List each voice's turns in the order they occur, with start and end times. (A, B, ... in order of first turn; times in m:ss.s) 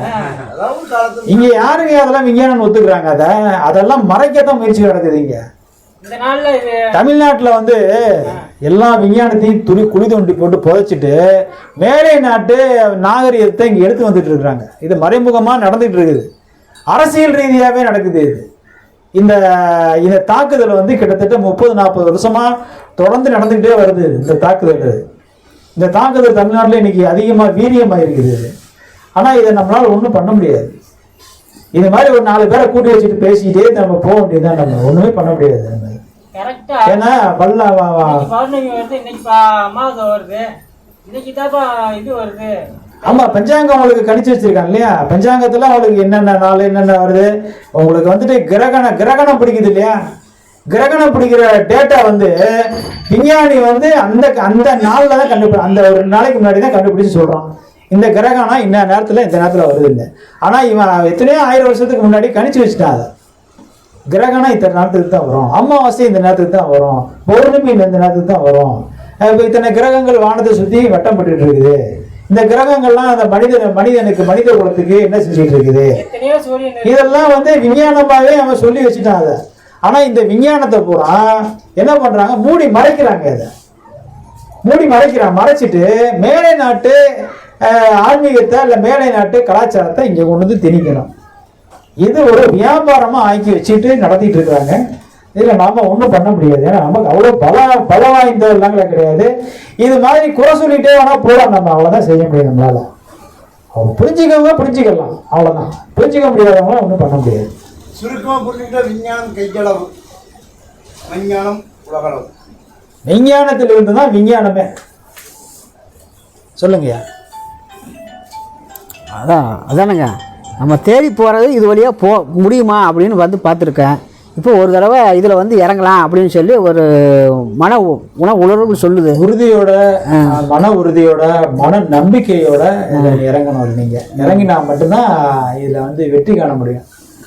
0:00.1-0:00.4 A
0:00.5-0:01.6 B
0:01.2-0:05.4 C
0:06.0-0:06.9 A
0:06.9-0:11.2 C
0:11.8-0:16.3 C
0:16.9-0:18.4 C
0:19.2-0:25.0 C
0:25.8-0:28.5 C
0:29.2-0:30.7 C
0:31.8-0:36.0 C
0:36.3-0:36.9 A
0:36.9-0:38.1 C
0:38.0-0:40.4 A
0:41.0-0:42.5 A
0:43.0-0:43.4 A
0:43.1-0:50.0 C
0:50.7-0:52.3 C
0:53.1-1:03.1 C
1:04.1-1:11.8 C
1:12.3-1:15.9 C
1:16.0-1:17.4 A
1:16.8-1:23.5 C
1:24.6-1:27.0 C
1:27.6-1:31.1 C
1:32.0-1:34.8 C
1:35.3-1:42.8 C
1:43.7-1:47.5 C
1:47.9-1:49.9 B
1:51.1-1:52.3 B
1:53.0-1:54.7 C
1:56.6-1:57.0 C
1:59.2-2:09.2 D
2:09.1-2:16.8 C
2:13.0-2:13.2 D